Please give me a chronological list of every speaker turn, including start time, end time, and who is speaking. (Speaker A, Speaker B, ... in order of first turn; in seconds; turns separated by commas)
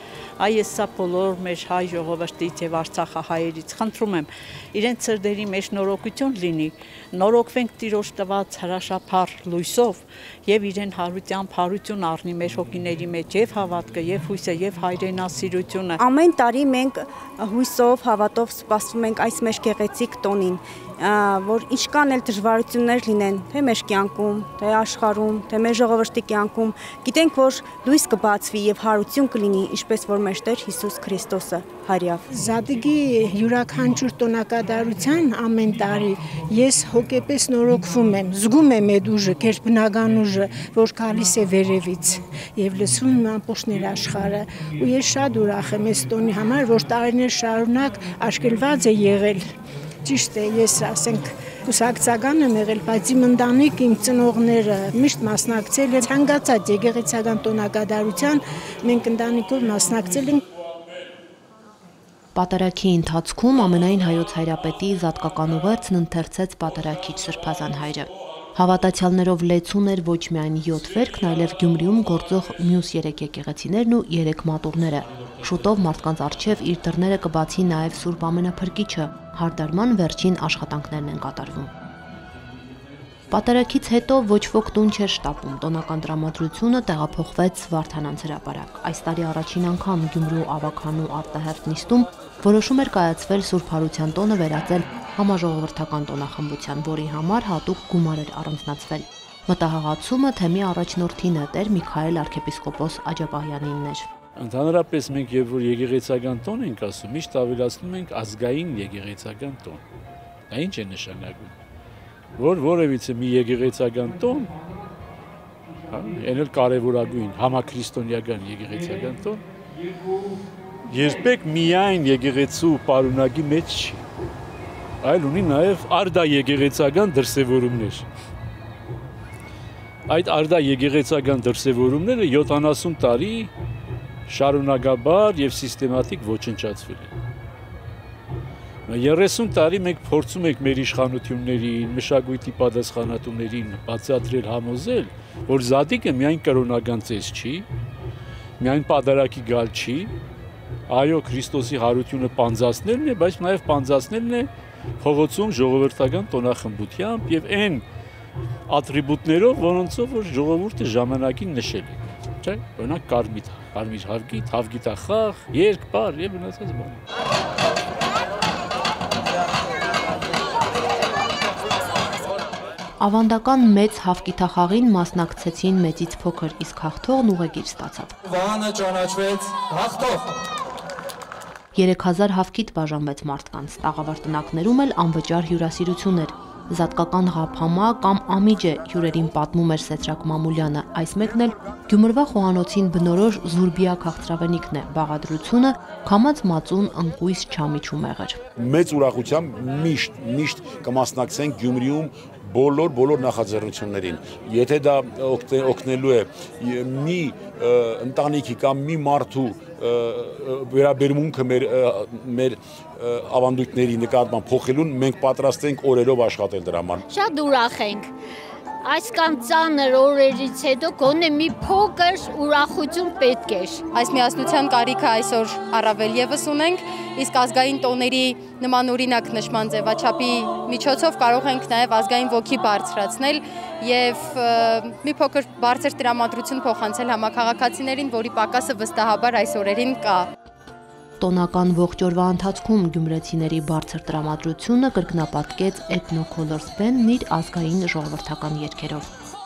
Speaker A: 0.4-16.0, Speaker B: 16.0-32.2, Speaker C: 32.3-49.4, Speaker C: 50.0-60.4, Speaker D: 62.4-81.7, Speaker D: 83.3-104.1, Speaker E: 104.4-109.8, Speaker E: 110.5-111.5, Speaker E: 112.4-114.5, Speaker E: 115.9-119.4, Speaker E: 120.9-124.0, Speaker E: 125.0-128.1, Speaker E: 130.1-133.5, Speaker E: 134.3-137.1, Speaker E: 138.9-147.7, Speaker E: 148.6-150.1, Speaker E: 150.9-154.5, Speaker E: 155.0-157.8, Speaker E: 158.7-167.0, Speaker D: 173.0-178.1, Speaker F: 178.3-180.2, Speaker D: 181.7-198.4, Speaker G: 198.6-217.0, Speaker H: 217.1-218.1, Speaker H: 218.8-223.8, Speaker I: 223.9-240.3, Speaker D: 241.2-249.1